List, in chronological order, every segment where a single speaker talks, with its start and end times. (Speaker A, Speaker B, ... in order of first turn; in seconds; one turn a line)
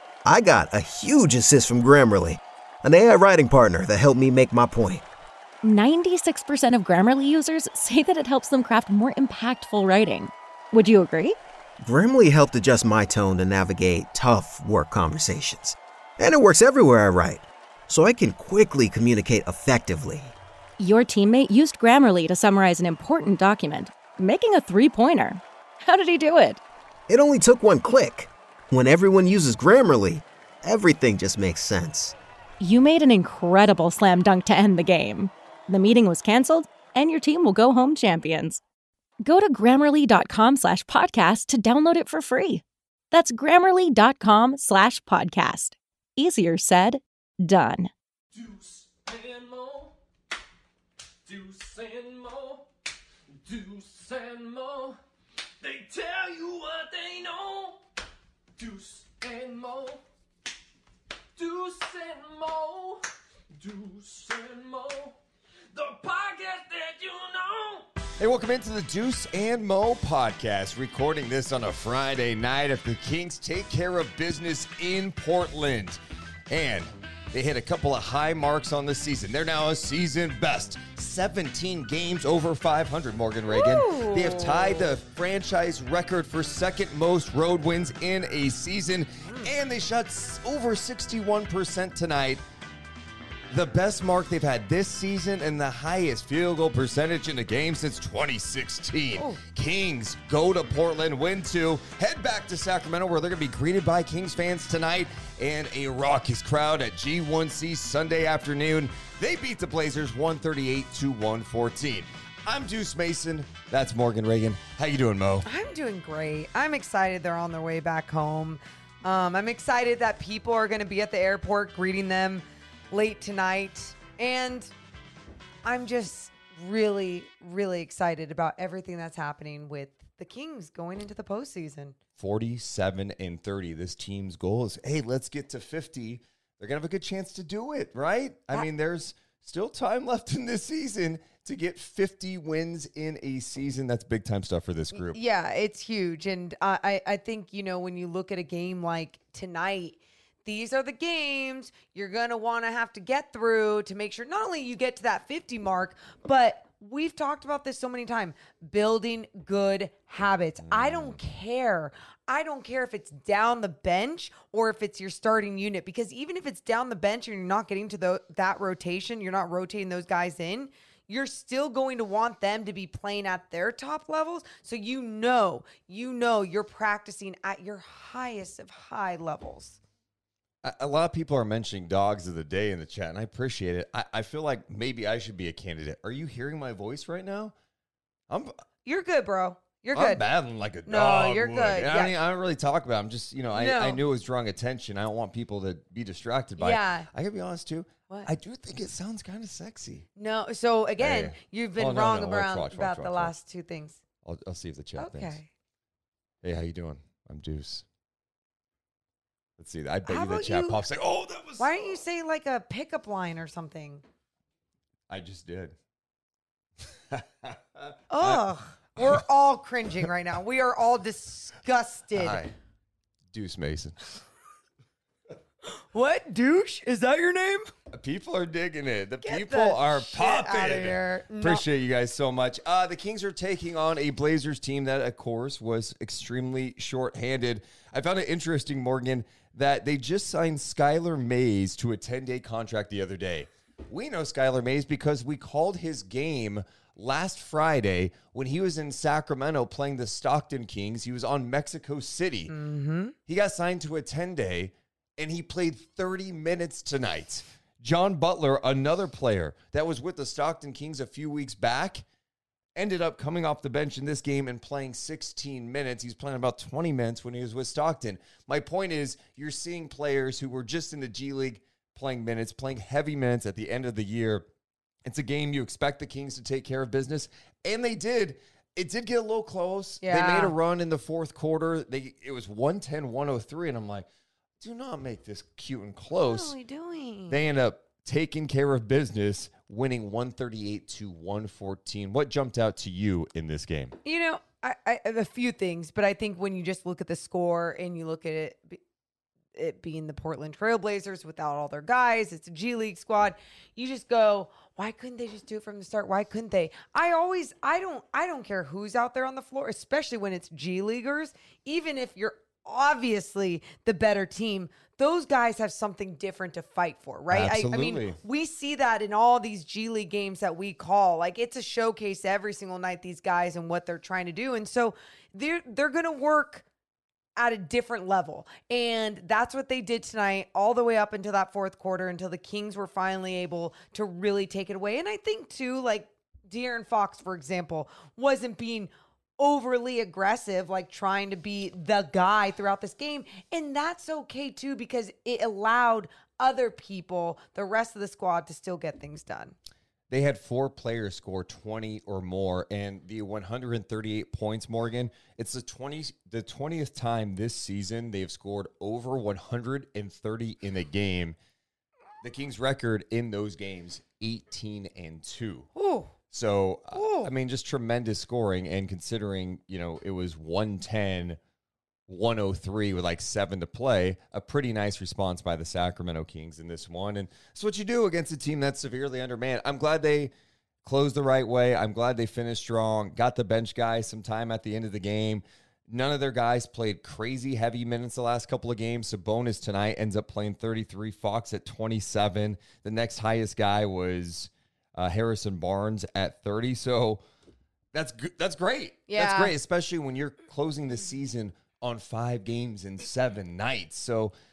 Speaker A: 0.2-5.0
Speaker B: 5.6-11.4
Speaker A: 11.8-20.3
Speaker B: 20.8-26.6
Speaker A: 27.1-32.1
Speaker B: 32.6-38.6
Speaker B: 39.2-47.9
Speaker C: 48.3-50.0
Speaker C: 51.3-52.7
Speaker C: 53.4-55.0
Speaker C: 55.6-57.8
Speaker C: 58.6-60.0
Speaker C: 61.4-63.0
Speaker C: 63.6-65.2
Speaker C: 65.7-67.9
Speaker D: 68.2-92.4
Speaker E: 83.5-85.0
Speaker D: 93.5-115.5
Speaker E: 115.5-124.7
Speaker E: 125.6-132.0
Speaker D: 132.2-145.2
Speaker E: 144.9-179.8
Speaker D: 160.6-161.2
Speaker D: 180.6-187.6
Speaker D: 188.3-188.6
Speaker E: 188.8-190.2
Speaker D: 189.9-200.1
Speaker E: 190.9-192.2
Speaker E: 193.5-194.0
Speaker E: 196.6-197.1
Speaker E: 200.2-204.0
Speaker D: 201.0-203.4
Speaker D: 204.2-205.4
Speaker E: 205.0-205.5
Speaker D: 206.4-207.8
Speaker D: 209.6-211.7
Speaker E: 210.1-210.8
Speaker E: 211.6-214.0
Speaker D: 215.1-215.8
Speaker D: 216.8-218.4
Speaker E: 218.1-222.4
Speaker D: 219.0-219.2
Speaker D: 222.1-222.5
Speaker D: 223.3-224.2
Speaker E: 225.7-227.7
Speaker D: 227.9-252.5
Speaker E: 229.2-231.7
Speaker E: 252.5-253.2
Speaker D: 253.3-262.1
Speaker D: 262.8-274.5
Speaker D: 275.0-284.1
Speaker E: 280.0-280.6
Speaker D: 284.6-286.6
Speaker E: 286.2-287.4
Speaker D: 287.3-294.0
Speaker E: 294.0-298.8
Speaker E: 299.6-326.6
Speaker D: 317.3-318.2
Speaker E: 327.4-349.6
Speaker D: 350.1-361.4
Speaker D: 362.2-365.7
Speaker E: 365.8-366.1
Speaker D: 366.3-371.4
Speaker E: 366.9-367.3
Speaker D: 372.1-380.3
Speaker D: 380.8-397.2
Speaker D: 397.9-404.3
Speaker E: 399.1-399.5